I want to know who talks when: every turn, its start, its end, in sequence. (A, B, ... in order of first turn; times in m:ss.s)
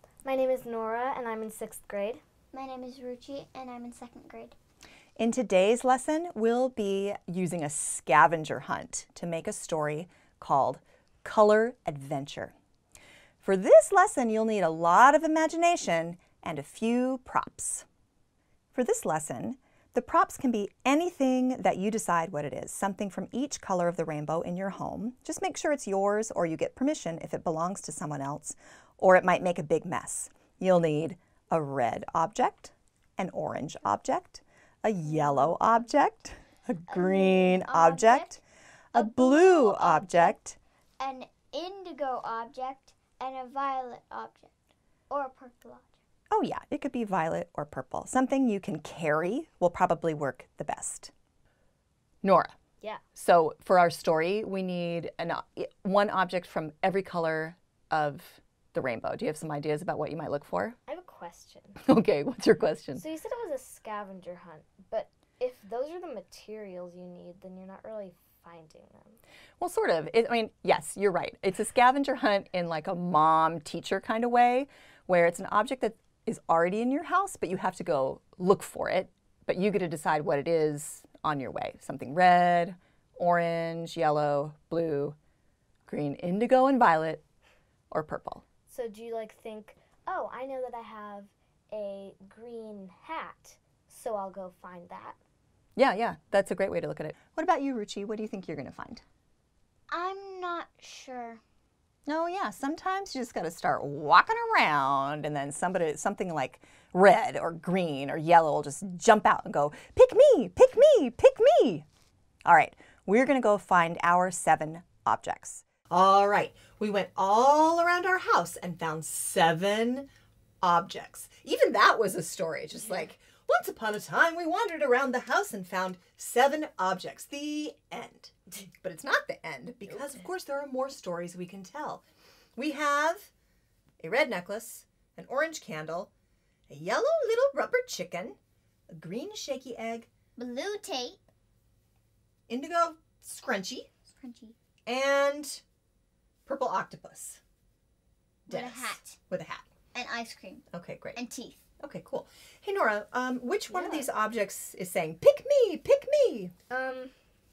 0:00.2-0:02.2 A
0:02.5-0:04.5 B
0:05.2-0:12.5 C
0:13.4-0:17.8 C
0:18.7-0:38.4 C
0:36.9-0:38.4 B
0:38.9-0:40.6 C
0:38.9-0:40.4 B
0:41.0-0:44.5 B
0:45.1-0:46.0 B
0:46.3-0:51.1 C
0:52.2-0:52.5 C
0:53.1-1:00.8 C
1:00.9-1:01.8 A
1:01.8-1:03.0 C
1:03.0-1:09.2 A
1:09.6-1:25.2 C
1:25.9-1:27.2 C
1:27.9-1:28.4 C
1:28.7-1:35.2 A
1:35.8-1:39.0 C
1:39.9-1:41.4 B
1:42.0-1:51.8 C
1:52.4-2:00.1 C
2:00.6-2:12.0 C
2:12.6-2:13.3 C
2:14.0-2:16.1 C
2:16.7-2:18.4 C
2:18.9-2:20.1 C
2:20.4-2:21.2 B
2:22.5-2:23.9 C
2:24.1-2:24.5 B
2:24.8-2:25.6 C
2:26.4-2:27.4 C
2:28.5-2:29.2 B
2:28.5-2:29.6 C
2:29.9-2:30.6 B
2:30.7-2:31.2 C
2:31.1-2:31.6 B
2:31.8-2:36.5 C
2:33.7-2:34.1 A
2:36.7-2:37.1 A